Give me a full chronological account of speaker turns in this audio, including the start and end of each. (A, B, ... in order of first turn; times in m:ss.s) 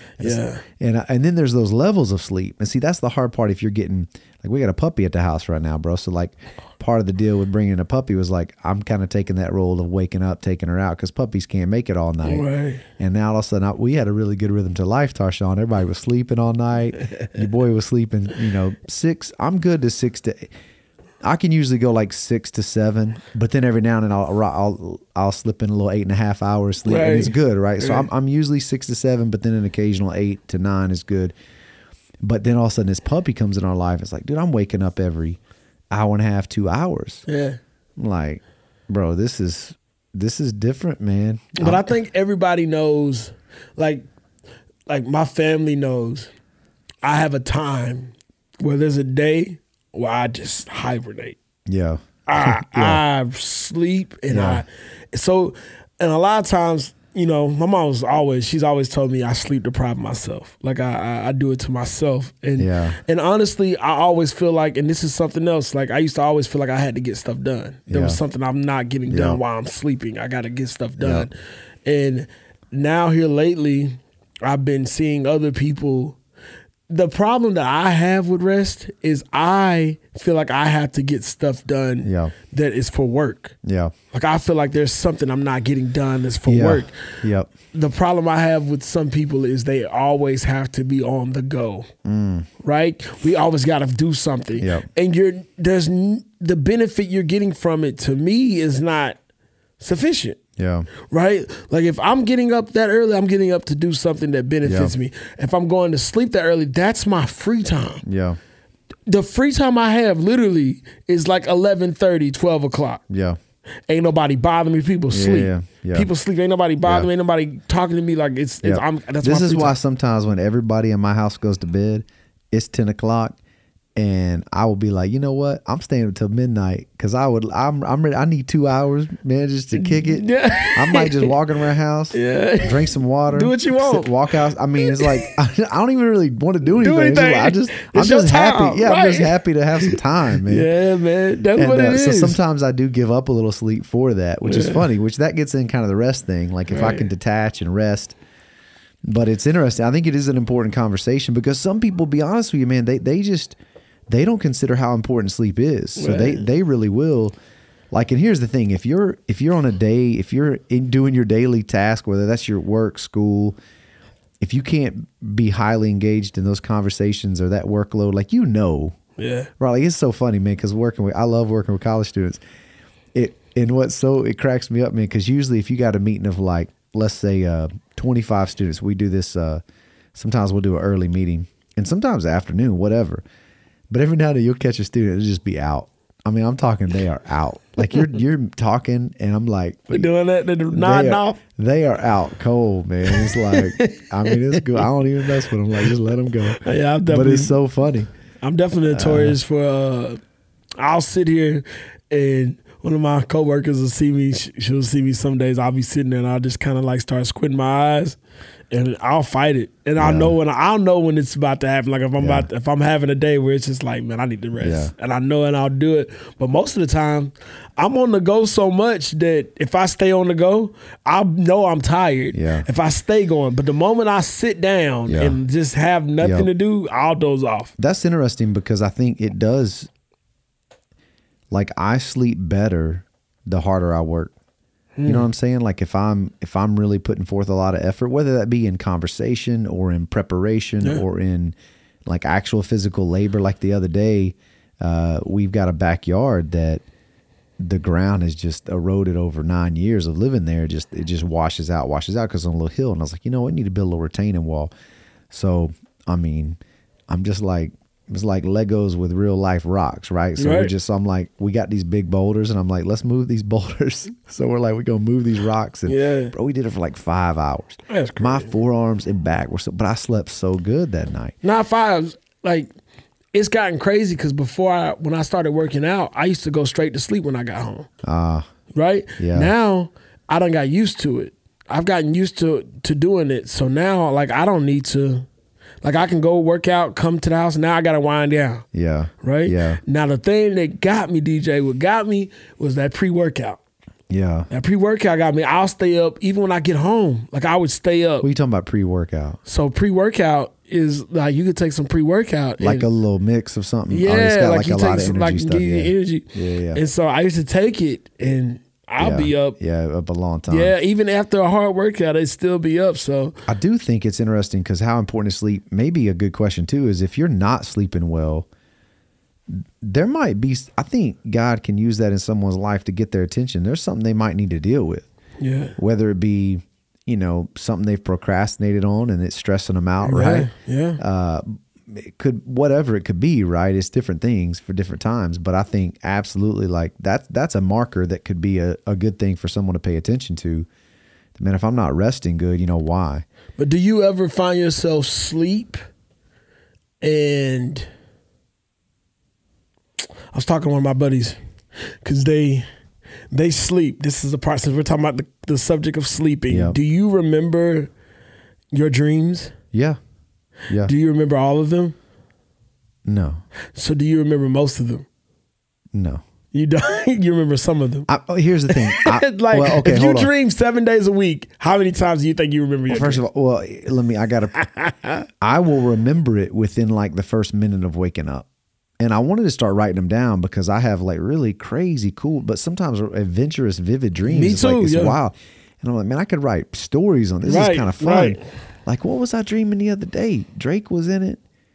0:00.2-0:00.6 A
0:00.2-0:12.5 B
0:12.2-0:12.8 A
0:13.0-0:20.5 B
0:21.2-0:31.3 B
0:26.8-0:28.1 A
0:32.2-0:35.4 B
0:35.9-0:37.3 B
0:37.3-0:37.6 A
0:38.0-0:41.9 B
0:41.6-0:44.0 A
0:44.9-0:46.3 A
0:47.0-0:51.4 A
0:51.7-0:53.0 B
0:52.3-1:16.2 A
0:54.3-0:54.6 B
1:02.6-1:03.0 B
1:07.9-1:08.2 B
1:09.1-1:09.4 B
1:11.0-1:11.3 B
1:16.9-1:23.6 A
1:22.0-1:22.3 B
1:23.6-1:23.9 B
1:24.1-1:27.2 A
1:26.5-1:27.5 B
1:27.7-1:31.9 A
1:32.0-1:32.5 B
1:32.6-1:39.2 A
1:34.6-1:34.9 B
1:39.8-1:40.4 A
1:40.6-1:40.9 B
1:41.0-1:48.0 A
1:44.6-1:44.9 B
1:48.0-1:48.4 B
1:49.1-1:53.0 A
1:53.1-1:53.4 B
1:53.9-1:59.8 A
1:55.1-1:56.1 B
1:58.6-2:03.4 B
2:04.0-2:20.7 B
2:09.8-2:11.3 A
2:12.1-2:14.2 A
2:14.8-2:15.3 A
2:16.7-2:22.4 A
2:21.6-2:28.2 B
2:24.4-2:24.9 A
2:26.7-2:27.1 A
2:29.1-2:33.6 B
2:34.1-2:37.4 B
2:36.0-2:36.4 A
2:37.9-2:43.6 B
2:44.4-2:49.0 B
2:49.2-2:49.5 A
2:49.6-2:52.4 B
2:53.2-2:59.6 B
3:00.2-3:03.2 B
3:03.9-3:10.1 B
3:09.9-3:11.4 A
3:10.7-3:18.1 B
3:13.1-3:14.9 A
3:16.5-3:17.6 A
3:18.4-3:20.2 A
3:18.9-3:19.4 B
3:20.8-3:28.2 A
3:28.7-3:47.7 A
3:30.0-3:30.4 B
3:32.2-3:32.5 B
3:34.6-3:34.9 B
3:42.3-3:42.7 B
3:45.1-3:45.4 B
3:46.2-3:46.5 B
3:47.8-3:49.9 B
3:51.5-3:54.3 B
3:55.0-3:55.3 A
3:55.0-4:01.6 B
4:02.1-4:06.8 B
4:07.6-4:14.7 B
4:15.3-4:16.6 B
4:17.1-4:31.4 B
4:20.4-4:20.7 A
4:25.9-4:26.3 A
4:27.9-4:28.5 A
4:31.4-4:32.7 A
4:33.3-4:37.9 A
4:38.0-4:38.5 B
4:38.7-4:45.3 A
4:39.2-4:39.5 B
4:45.8-4:48.6 A
4:48.7-4:49.8 B
4:49.2-4:53.6 A
4:54.1-4:54.5 B
4:54.5-4:58.3 A
4:58.2-4:59.4 B
4:59.5-5:02.9 A
5:02.6-5:06.8 B
5:03.9-5:09.6 A
5:09.0-5:10.7 B
5:10.5-5:13.4 A
5:13.5-5:18.5 B
5:19.5-5:25.1 B
5:25.4-5:25.7 A
5:25.8-5:40.7 B
5:30.0-5:31.0 A
5:41.4-5:43.3 B
5:43.6-5:45.8 A
5:47.0-5:47.9 A
5:50.3-5:52.6 A
5:53.3-5:57.9 A
5:56.5-5:56.8 B
5:58.7-5:59.5 A
5:59.7-6:00.0 B
6:00.7-6:00.9 B
6:00.8-6:02.0 A
6:03.1-6:03.4 B
6:03.8-6:05.1 A
6:05.9-6:06.2 B
6:06.5-6:08.1 A
6:08.1-6:10.3 B
6:08.7-6:13.2 A
6:12.9-6:14.6 B
6:14.6-6:15.3 A
6:15.4-6:18.5 B
6:19.0-6:31.4 B
6:24.2-6:25.2 A
6:27.4-6:28.4 A